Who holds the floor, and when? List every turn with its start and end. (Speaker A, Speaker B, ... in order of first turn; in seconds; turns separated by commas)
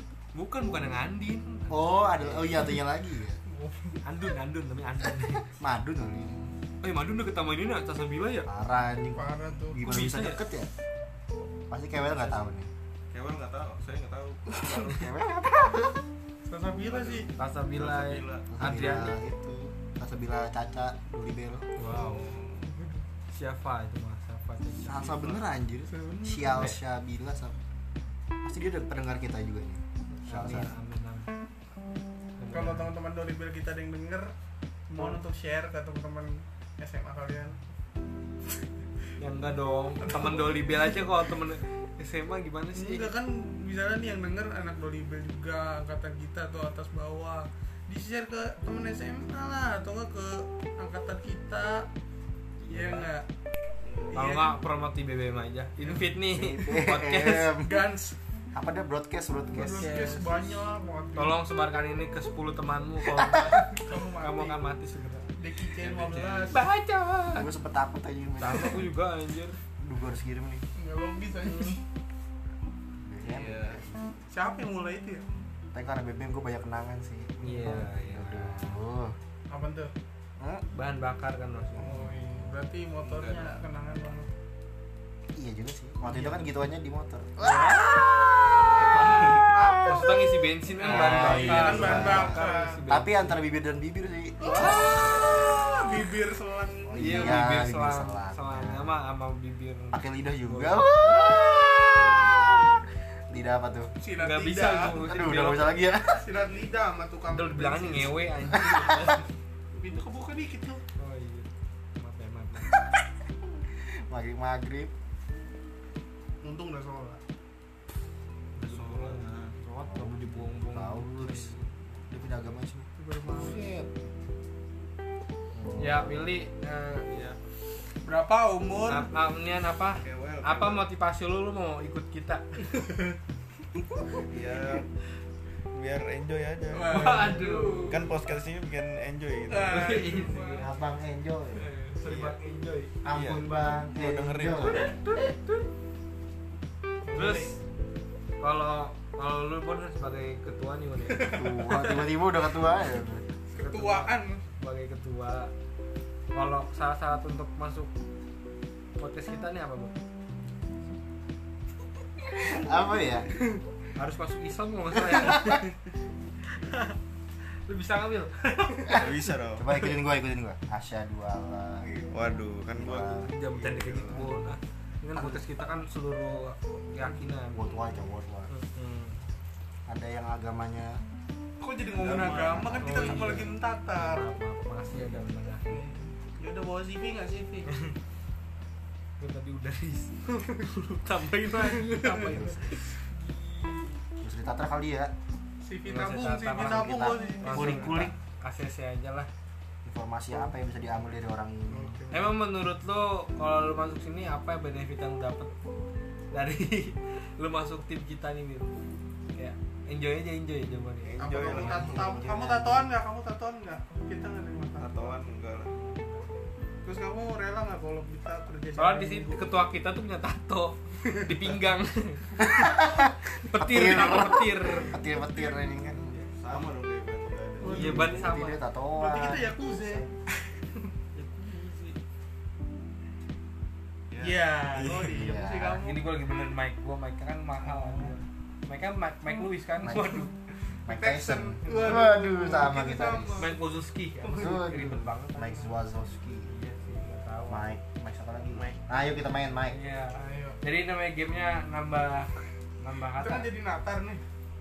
Speaker A: 0.3-1.9, Speaker B: 1.7-3.4, Speaker C: 3.5-4.0, Speaker A: 4.0-5.5, Speaker B: 5.6-6.5, Speaker A: 6.8-8.5, Speaker B: 8.5-10.7, Speaker C: 9.1-9.9, Speaker A: 9.8-10.4, Speaker B: 11.7-12.7, Speaker D: 13.1-15.0, Speaker B: 14.5-16.1, Speaker C: 16.4-17.3, Speaker D: 16.9-18.5, Speaker A: 17.4-19.1, Speaker B: 18.5-21.7, Speaker A: 21.8-22.3, Speaker D: 21.9-22.7, Speaker C: 22.7-23.0, Speaker A: 23.3-25.4, Speaker B: 24.8-27.6, Speaker C: 25.9-26.7, Speaker A: 26.5-26.8, Speaker B: 28.4-30.7, Speaker A: 30.1-31.3, Speaker A: 32.4-32.9, Speaker C: 32.5-34.4, Speaker C: 34.9-37.6, Speaker A: 39.2-43.1, Speaker C: 40.0-40.7, Speaker C: 42.8-51.9, Speaker A: 52.7-53.1, Speaker B: 52.7-53.0, Speaker C: 52.7-53.3, Speaker D: 53.8-54.1, Speaker C: 54.1-54.6, Speaker A: 54.1-57.6, Speaker B: 56.3-57.8, Speaker C: 57.6-58.2, Speaker B: 58.5-60.0, Speaker C: 59.5-61.4, Speaker A: 59.7-60.4, Speaker A: 61.2-65.3, Speaker B: 63.2-63.5, Speaker C: 63.7-64.6, Speaker C: 65.4-66.6, Speaker D: 65.8-66.6, Speaker A: 66.5-67.5, Speaker B: 67.3-68.9, Speaker A: 68.4-69.6, Speaker B: 69.8-70.6, Speaker C: 70.8-71.8, Speaker A: 71.5-71.8, Speaker B: 73.0-74.0, Speaker D: 73.2-73.8, Speaker C: 74.3-75.2, Speaker B: 75.7-79.2, Speaker A: 77.4-78.0, Speaker D: 77.7-78.7, Speaker C: 79.5-79.9, Speaker B: 80.4-80.7, Speaker A: 80.7-82.0, Speaker C: 81.8-84.3, Speaker D: 83.0-83.6, Speaker B: 85.3-90.2, Speaker A: 87.4-87.9, Speaker D: 88.6-89.6, Speaker C: 89.5-90.1, Speaker A: 89.8-93.4, Speaker C: 90.8-92.8, Speaker B: 90.8-95.5, Speaker D: 91.2-92.1, Speaker C: 94.4-97.4, Speaker D: 94.9-95.6, Speaker B: 96.9-98.9, Speaker A: 97.0-101.3, Speaker B: 99.9-103.9, Speaker C: 104.0-105.1, Speaker A: 104.2-105.8, Speaker B: 104.9-106.3, Speaker C: 106.1-108.2, Speaker A: 107.3-109.3, Speaker B: 108.5-109.0, Speaker C: 109.7-110.8, Speaker A: 111.0-112.7, Speaker B: 113.8-114.9, Speaker C: 116.4-117.2, Speaker D: 118.6-119.5, Speaker A: 118.7-121.7, Speaker B: 118.9-119.3, Speaker B: 119.8-122.9, Speaker C: 123.0-123.6, Speaker A: 123.4-123.9, Speaker B: 125.5-126.2, Speaker A: 125.8-127.1, Speaker D: 127.1-127.4, Speaker C: 128.0-129.1, Speaker A: 128.9-132.5, Speaker D: 130.0-130.8, Speaker C: 132.8-133.2, Speaker D: 134.2-134.9, Speaker D: 135.7-137.3, Speaker C: 136.7-138.0, Speaker A: 136.9-138.0, Speaker D: 137.9-140.0, Speaker C: 139.5-140.7, Speaker A: 139.7-140.7, Speaker B: 140.6-141.7, Speaker A: 141.6-142.9, Speaker D: 142.1-142.4, Speaker B: 143.0-144.8, Speaker D: 143.1-144.9, Speaker A: 144.4-145.7, Speaker C: 147.0-147.6, Speaker A: 147.1-147.6, Speaker A: 148.4-151.4, Speaker C: 151.1-152.1, Speaker B: 151.3-153.2, Speaker C: 153.5-154.4, Speaker A: 153.5-155.5, Speaker A: 156.3-157.9, Speaker A: 159.0-159.9, Speaker B: 162.4-163.3, Speaker A: 164.0-165.7, Speaker B: 165.2-165.5, Speaker A: 166.6-167.0, Speaker A: 167.7-169.1, Speaker D: 168.9-169.7, Speaker B: 169.6-171.9, Speaker D: 172.1-174.2, Speaker B: 172.8-173.3, Speaker A: 173.2-177.8, Speaker B: 174.1-174.4, Speaker B: 175.2-175.4, Speaker B: 177.5-178.5, Speaker A: 178.5-179.2, Speaker B: 179.9-181.0, Speaker C: 181.6-184.3, Speaker D: 182.0-182.9, Speaker B: 182.4-183.5, Speaker A: 182.8-185.8, Speaker C: 185.7-187.7, Speaker A: 187.7-187.9, Speaker A: 189.2-193.9, Speaker C: 191.6-192.4, Speaker B: 192.1-192.8, Speaker B: 194.2-195.1, Speaker C: 195.6-198.1, Speaker A: 195.9-199.3, Speaker B: 196.5-198.1, Speaker B: 199.8-202.0, Speaker C: 201.7-202.3, Speaker A: 202.1-205.5, Speaker A: 206.3-208.8, Speaker A: 209.3-212.1, Speaker D: 211.1-212.3, Speaker C: 211.2-215.1, Speaker B: 211.4-212.9, Speaker D: 214.8-215.7, Speaker A: 215.7-216.5, Speaker C: 216.8-219.5, Speaker A: 218.8-222.5, Speaker B: 222.4-226.2, Speaker A: 223.4-224.9, Speaker C: 224.9-225.6, Speaker D: 226.2-227.9, Speaker C: 227.6-228.2, Speaker A: 227.7-228.6, Speaker B: 227.7-230.1, Speaker C: 229.0-230.9, Speaker A: 231.2-232.0, Speaker D: 234.1-235.1, Speaker C: 234.2-236.0, Speaker B: 235.1-235.9, Speaker A: 235.8-240.3, Speaker C: 237.6-238.2, Speaker B: 239.8-240.3, Speaker B: 240.8-243.5, Speaker C: 240.9-243.6, Speaker A: 241.6-242.0, Speaker A: 243.4-245.8, Speaker C: 244.2-244.6, Speaker B: 244.3-246.5, Speaker A: 246.5-247.7, Speaker B: 247.5-249.8, Speaker D: 248.5-248.8, Speaker A: 249.7-252.3, Speaker C: 250.2-250.6, Speaker A: 252.8-253.5, Speaker C: 253.2-254.2